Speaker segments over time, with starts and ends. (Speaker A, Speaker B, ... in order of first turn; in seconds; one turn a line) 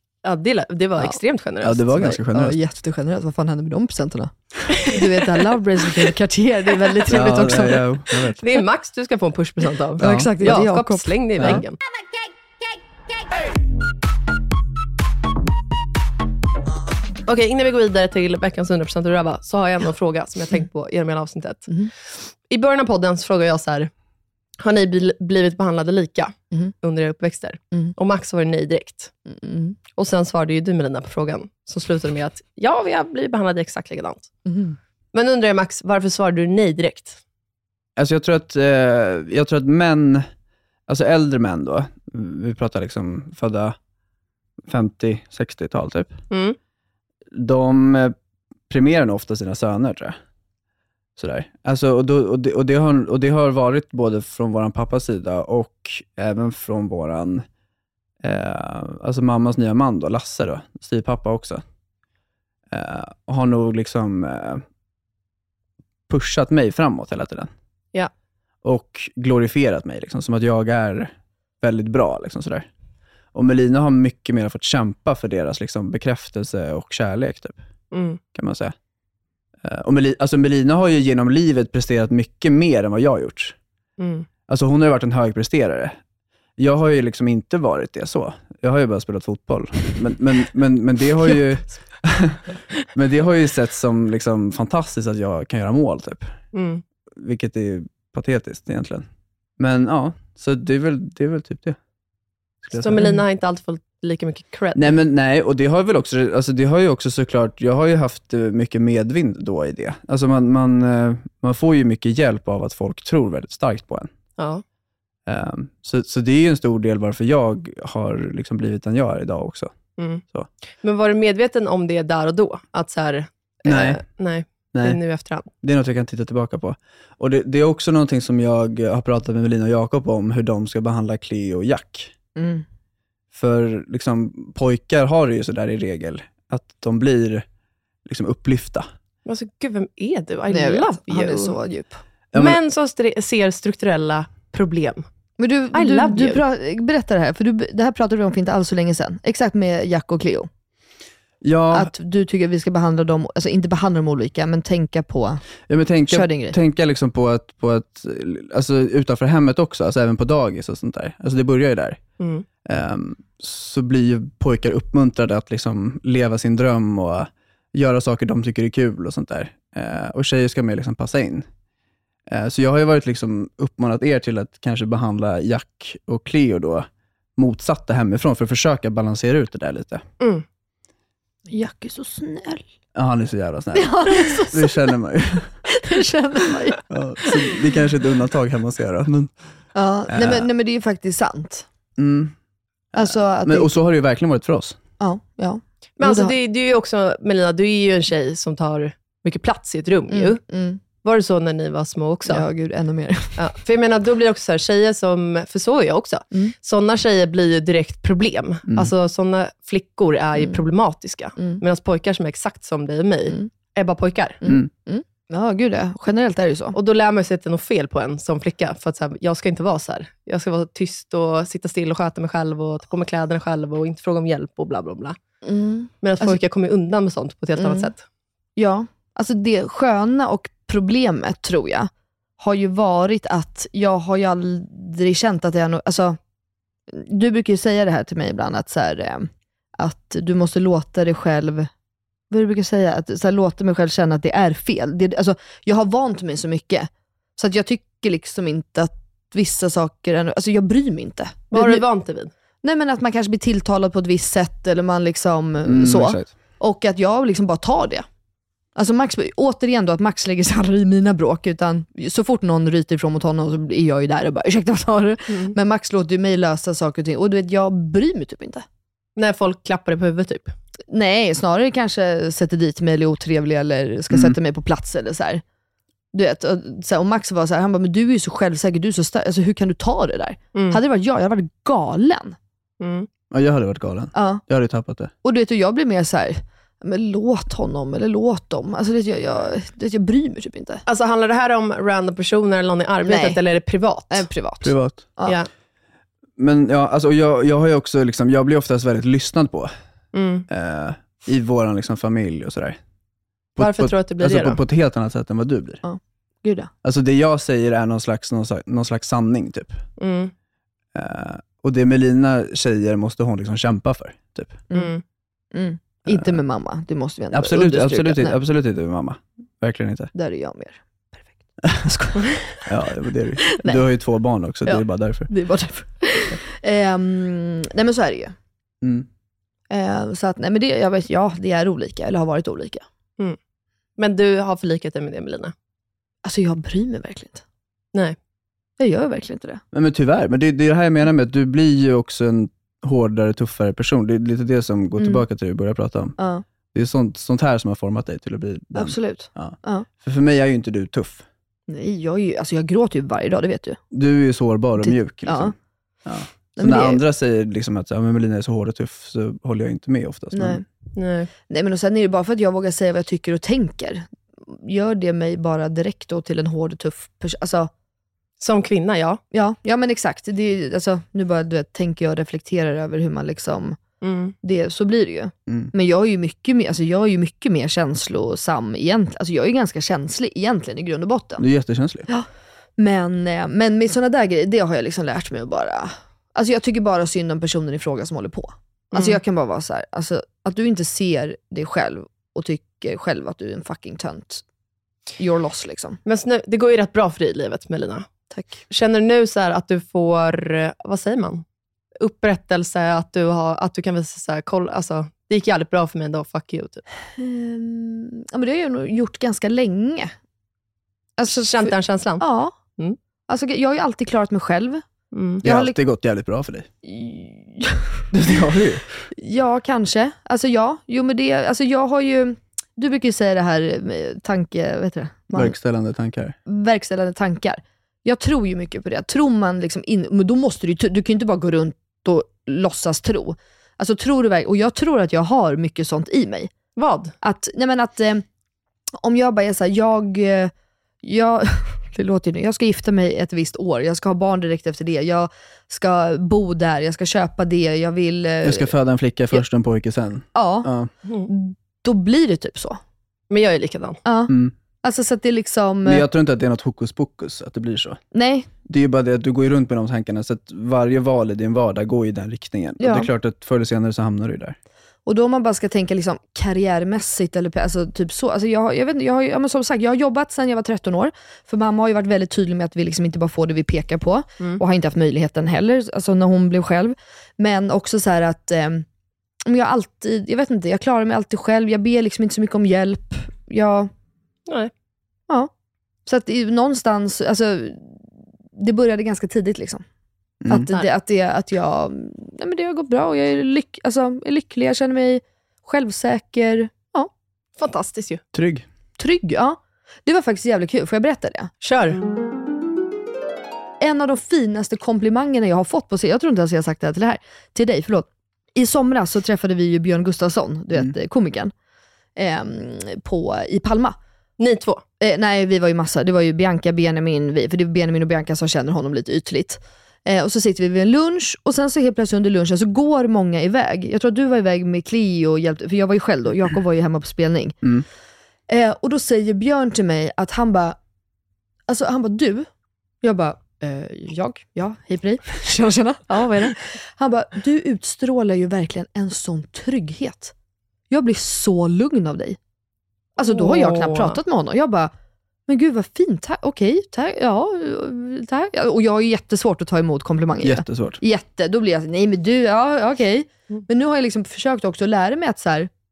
Speaker A: 0.2-1.9
Speaker B: 1.6-2.6
Speaker C: 1.9-7.8
Speaker B: 7.1-8.4
Speaker A: 7.4-7.8
Speaker A: 8.4-11.8
Speaker C: 10.0-11.6
Speaker B: 10.0-10.6
Speaker A: 17.3-23.9
Speaker A: 24.6-29.1
Speaker C: 29.3-29.8
Speaker A: 29.9-34.3
Speaker C: 34.5-34.8
Speaker A: 35.1-37.2
Speaker B: 38.0-40.3
Speaker B: 40.9-43.8
Speaker B: 44.7-46.1
Speaker A: 46.3-46.6
Speaker B: 47.3-48.1
Speaker B: 48.7-50.2
Speaker B: 51.2-57.4
Speaker B: 58.2-61.6
Speaker B: 62.7-64.6
Speaker B: 66.1-67.5
Speaker B: 68.6-72.7
Speaker B: 73.3-77.6
Speaker A: 77.9-78.2
Speaker B: 78.3-78.7
Speaker B: 79.6-83.6
Speaker A: 84.0-84.3
Speaker B: 84.5-86.0
Speaker B: 86.6-92.4
Speaker B: 92.9-96.3
Speaker A: 96.5-96.8
Speaker B: 97.2-99.1
Speaker B: 99.6-101.8
Speaker B: 102.6-103.2
Speaker A: 102.8-105.0
Speaker B: 104.8-114.1
Speaker A: 114.4-114.6
Speaker B: 115.3-119.7
Speaker A: 120.0-120.2
Speaker A: 120.8-125.5
Speaker B: 123.7-124.0
Speaker B: 125.6-132.1
Speaker C: 132.4-132.7
Speaker B: 133.3-137.4
Speaker B: 138.1-138.9
Speaker A: 139.3-141.6
Speaker C: 140.5-142.0
Speaker B: 142.3-142.6
Speaker A: 142.3-145.1
Speaker C: 145.4-150.5
Speaker A: 145.7-146.4
Speaker B: 151.4-151.9
Speaker C: 151.7-155.4
Speaker B: 155.7-162.0
Speaker C: 156.1-156.6
Speaker A: 162.2-162.4
Speaker B: 162.7-171.5
Speaker B: 172.3-180.0
Speaker C: 181.5-182.7
Speaker B: 182.9-185.5
Speaker C: 183.7-184.9
Speaker C: 185.7-187.4
Speaker B: 186.9-189.3
Speaker C: 189.7-191.7
Speaker B: 190.1-190.5
Speaker B: 192.0-192.3
Speaker B: 192.9-194.8
Speaker C: 192.9-193.8
Speaker C: 195.0-196.3
Speaker A: 196.0-200.4
Speaker C: 200.1-200.8
Speaker A: 201.0-202.4
Speaker C: 202.3-203.4
Speaker A: 203.4-214.4
Speaker C: 210.4-210.6
Speaker C: 211.4-211.6
Speaker C: 214.4-216.8
Speaker A: 216.7-225.2
Speaker C: 225.4-226.4
Speaker A: 226.0-228.0
Speaker C: 227.6-227.9
Speaker C: 228.6-236.2
Speaker C: 236.9-241.7
Speaker C: 242.3-251.8
Speaker A: 251.5-252.3
Speaker C: 252.6-258.1
Speaker B: 255.7-256.3
Speaker C: 258.8-268.6
Speaker A: 269.2-270.6
Speaker C: 270.9-275.4
Speaker C: 276.1-282.4
Speaker A: 280.6-280.8
Speaker A: 282.8-283.1
Speaker B: 283.3-285.1
Speaker C: 284.1-284.4
Speaker C: 285.2-290.8
Speaker A: 290.9-294.3
Speaker C: 293.0-293.4
Speaker C: 294.1-295.4
Speaker B: 294.6-295.0
Speaker B: 296.4-299.7
Speaker A: 300.1-300.5
Speaker B: 300.5-302.8
Speaker B: 303.6-305.8
Speaker A: 303.6-304.6
Speaker C: 305.8-306.7
Speaker B: 306.8-309.8
Speaker A: 310.0-310.3
Speaker B: 310.9-314.6
Speaker A: 314.7-315.0
Speaker C: 315.5-318.4
Speaker B: 316.1-316.4
Speaker B: 317.3-320.1
Speaker C: 320.1-321.3
Speaker C: 321.8-322.6
Speaker B: 322.7-325.3
Speaker C: 323.5-323.8
Speaker C: 324.7-328.4
Speaker B: 328.8-329.1
Speaker C: 329.7-332.9
Speaker A: 334.0-335.5
Speaker C: 336.2-337.4
Speaker C: 338.8-339.6
Speaker B: 339.7-346.2
Speaker C: 345.0-345.2
Speaker C: 346.2-346.4
Speaker B: 346.7-351.2
Speaker C: 348.7-349.9
Speaker C: 351.7-353.8
Speaker B: 353.9-355.5
Speaker C: 354.8-355.5
Speaker B: 356.1-360.6
Speaker C: 356.6-357.0
Speaker C: 360.3-360.6
Speaker A: 361.0-361.3
Speaker C: 361.5-367.7
Speaker A: 368.4-369.2
Speaker C: 369.3-373.8
Speaker A: 374.0-374.3
Speaker C: 374.4-381.4
Speaker B: 381.4-382.1
Speaker C: 382.1-394.4
Speaker A: 388.9-389.2
Speaker C: 395.2-396.0
Speaker A: 396.1-398.1
Speaker C: 398.3-398.6
Speaker A: 398.7-401.4
Speaker A: 402.0-406.8
Speaker C: 407.2-410.1
Speaker C: 411.2-412.6
Speaker A: 411.3-412.2
Speaker C: 413.3-414.8
Speaker A: 415.1-415.4
Speaker C: 415.4-415.8
Speaker B: 415.4-416.7
Speaker C: 416.8-418.1
Speaker B: 418.1-418.9
Speaker C: 419.1-425.6
Speaker B: 425.3-426.4
Speaker C: 426.5-436.5
Speaker A: 436.8-437.1
Speaker C: 437.2-438.2
Speaker C: 439.0-440.5
Speaker C: 441.0-448.7
Speaker B: 448.4-450.9
Speaker C: 450.4-450.7
Speaker C: 451.3-452.8
Speaker A: 453.3-454.0
Speaker C: 454.1-456.1
Speaker B: 454.3-454.5
Speaker B: 455.9-458.0
Speaker C: 458.1-458.5
Speaker B: 458.6-464.6
Speaker C: 462.8-463.1
Speaker C: 465.1-478.9
Speaker C: 479.5-483.9
Speaker C: 486.1-489.8
Speaker B: 490.4-490.7
Speaker C: 490.5-497.1
Speaker A: 497.6-498.2
Speaker B: 498.3-498.6
Speaker C: 499.0-501.5
Speaker A: 501.6-502.0
Speaker C: 503.8-511.5
Speaker C: 512.2-514.0
Speaker A: 514.4-514.8
Speaker C: 515.0-527.6
Speaker C: 528.5-530.8
Speaker C: 531.7-532.5
Speaker C: 533.0-540.3
Speaker C: 540.9-542.4
Speaker C: 543.2-544.9
Speaker A: 543.2-544.2
Speaker C: 545.5-555.7
Speaker B: 550.4-551.0